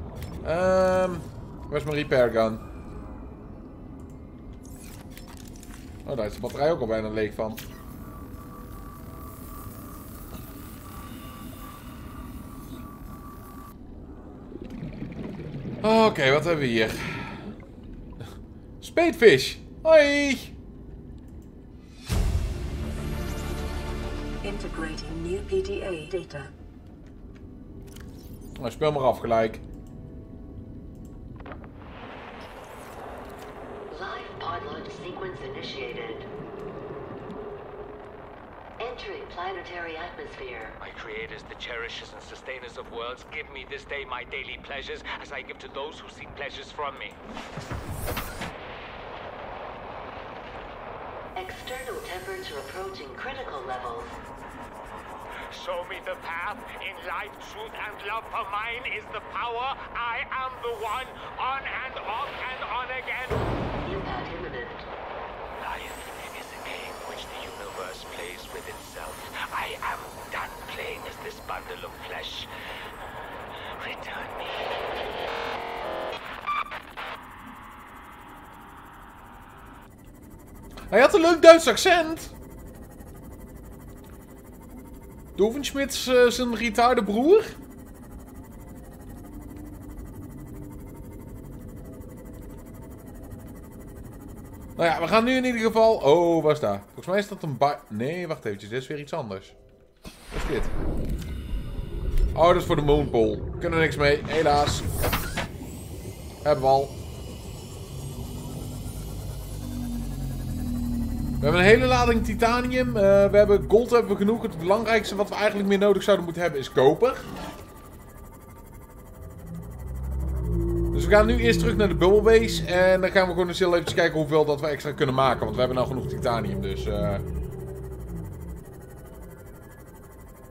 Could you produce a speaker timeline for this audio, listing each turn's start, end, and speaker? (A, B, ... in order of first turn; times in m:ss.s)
0:00.4-0:02.6 A
0:06.0-0:07.6 A
0:15.8-0:17.4 A
0:18.8-0:20.5 A
0:24.4-0:26.5 B
0:28.6-0:29.6 A
0:33.9-0:36.3 C
0:38.8-0:40.8 C
0:40.8-0:47.2 D
0:51.4-0:54.1 C
0:55.5-1:03.5 D
1:03.8-1:04.9 C
1:05.6-1:12.5 D
1:13.8-1:15.0 D
1:20.9-1:22.3 A
1:25.4-1:27.6 A
1:34.8-1:39.6 A
1:40.3-1:40.7 A
1:42.3-1:44.9 A
1:46.4-1:47.0 A
1:51.4-1:57.3 A
2:00.9-2:07.2 A